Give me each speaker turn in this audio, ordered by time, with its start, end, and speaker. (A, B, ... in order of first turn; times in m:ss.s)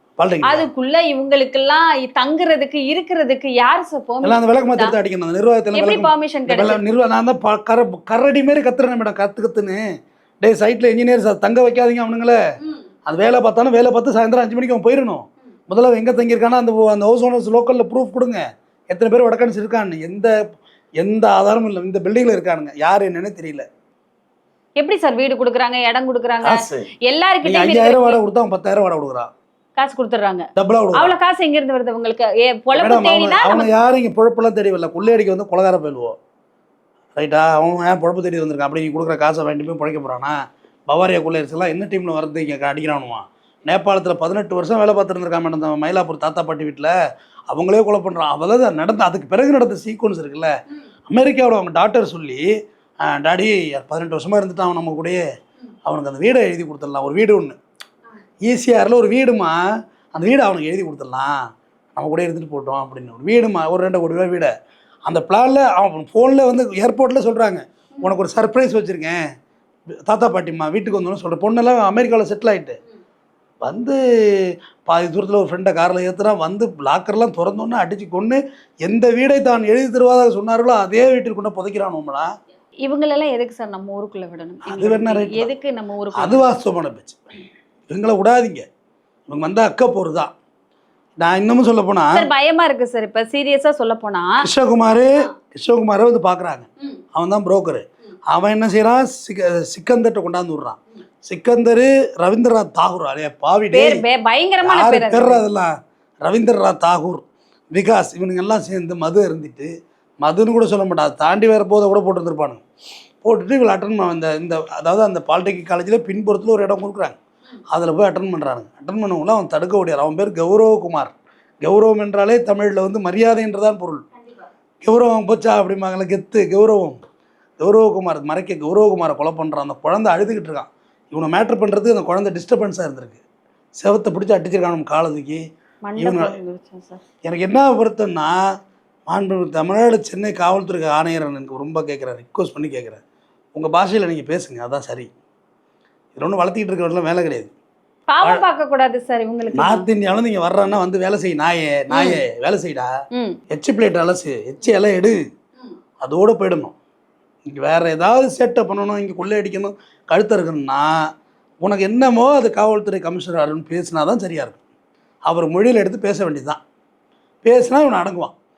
0:00.2-0:00.7 A
0:00.4-0:04.9 B
0:04.2-0:09.8 A
0:05.8-0:06.8 B
0:10.4-0:12.4 A
0:13.1-0:20.3 A
0:21.0-0:23.6 A
0:24.8-0:28.2 B
0:26.4-0:26.9 A
0:27.4-0:29.3 A
0:29.8-0:33.7 B
0:30.6-0:31.2 A
0:32.8-0:36.2 A
0:37.2-0:40.4 A
0:40.9-0:46.9 A
0:47.5-0:50.5 A
0:51.1-0:52.5 A
0:53.0-0:55.2 A
0:55.9-0:57.6 A
0:58.4-0:59.6 A
1:00.1-1:01.4 A
1:02.0-1:04.5 A
1:05.1-1:09.2 A
1:10.1-1:12.8 A
1:13.6-1:22.3 A
1:22.8-1:26.5 B
1:24.6-1:25.5 A
1:26.2-1:27.2 A
1:27.9-1:28.6 A
1:29.3-1:30.3 A
1:31.2-1:32.3 A
1:32.1-1:34.4 B
1:34.4-1:44.0 A
1:43.7-1:45.4 B
1:44.6-1:45.7 A
1:46.2-1:49.7 A
1:50.2-1:52.6 A
1:53.2-1:57.2 A
1:57.7-2:04.0 A
2:04.8-2:07.0 A
2:07.6-2:13.2 A
2:13.8-2:15.4 A
2:15.8-2:17.0 B
2:16.0-2:16.4 A
2:17.2-2:18.4 A
2:19.1-2:23.0 A
2:23.5-2:25.1 A
2:26.2-2:27.5 A
2:28.1-2:29.9 B
2:29.5-2:32.9 A
2:31.9-2:32.2 B
2:33.1-2:33.4 B
2:33.5-2:35.2 A
2:36.0-2:36.8 A
2:37.5-2:40.9 A
2:41.6-2:44.6 A
2:45.3-2:46.6 A
2:47.4-2:48.3 A